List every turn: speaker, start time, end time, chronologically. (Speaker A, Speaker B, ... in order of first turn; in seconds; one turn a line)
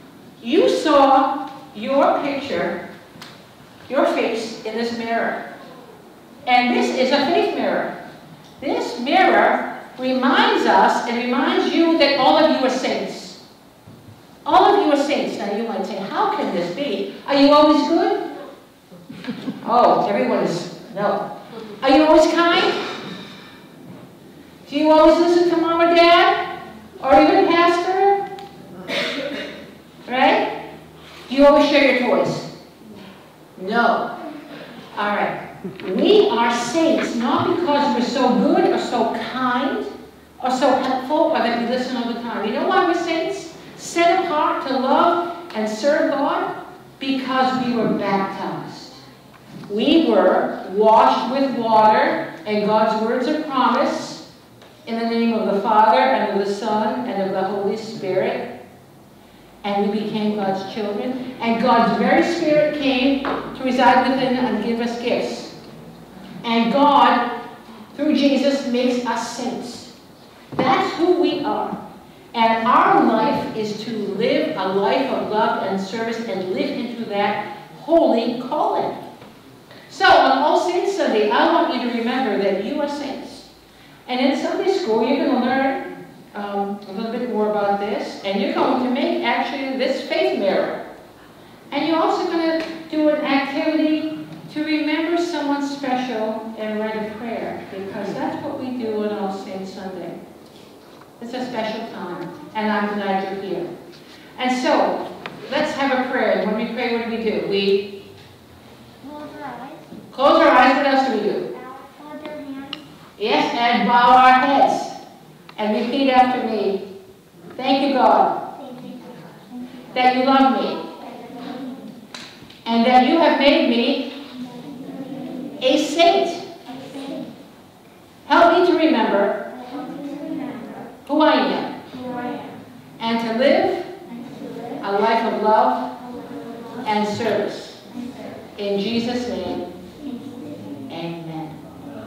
Speaker A: 0.4-2.8
Speaker A: 3.9-5.4
Speaker A: 6.5-7.9
Speaker A: 8.6-13.4
Speaker A: 14.4-18.2
Speaker A: 19.6-21.2
Speaker A: 21.8-22.8
Speaker A: 24.7-26.4
Speaker A: 27.0-28.2
Speaker A: 30.1-30.5
Speaker A: 31.3-32.5
Speaker A: 33.6-34.1
Speaker A: 35.0-49.0
Speaker A: 49.7-54.2
Speaker A: 54.9-58.5
Speaker A: 59.6-65.5
Speaker A: 66.4-67.2
Speaker A: 67.9-69.9
Speaker A: 70.5-71.8
Speaker A: 72.3-79.0
Speaker A: 79.9-83.5
Speaker A: 84.1-90.8
Speaker A: 91.7-100.2
Speaker A: 101.2-103.7
Speaker A: 104.4-107.9
Speaker B: 109.0-109.8
Speaker A: 110.1-111.5
Speaker B: 111.6-112.8
Speaker A: 113.2-115.0
Speaker A: 115.6-116.8
Speaker A: 117.6-118.5
Speaker B: 118.7-119.2
Speaker A: 119.9-120.9
Speaker B: 121.3-121.6
Speaker A: 122.7-124.1
Speaker A: 125.6-126.5
Speaker A: 128.3-129.4
Speaker B: 129.7-130.8
Speaker A: 131.1-131.7
Speaker B: 132.1-132.5
Speaker A: 133.0-133.9
Speaker A: 134.8-135.9
Speaker A: 136.8-137.8
Speaker A: 138.6-139.7
Speaker A: 140.9-141.6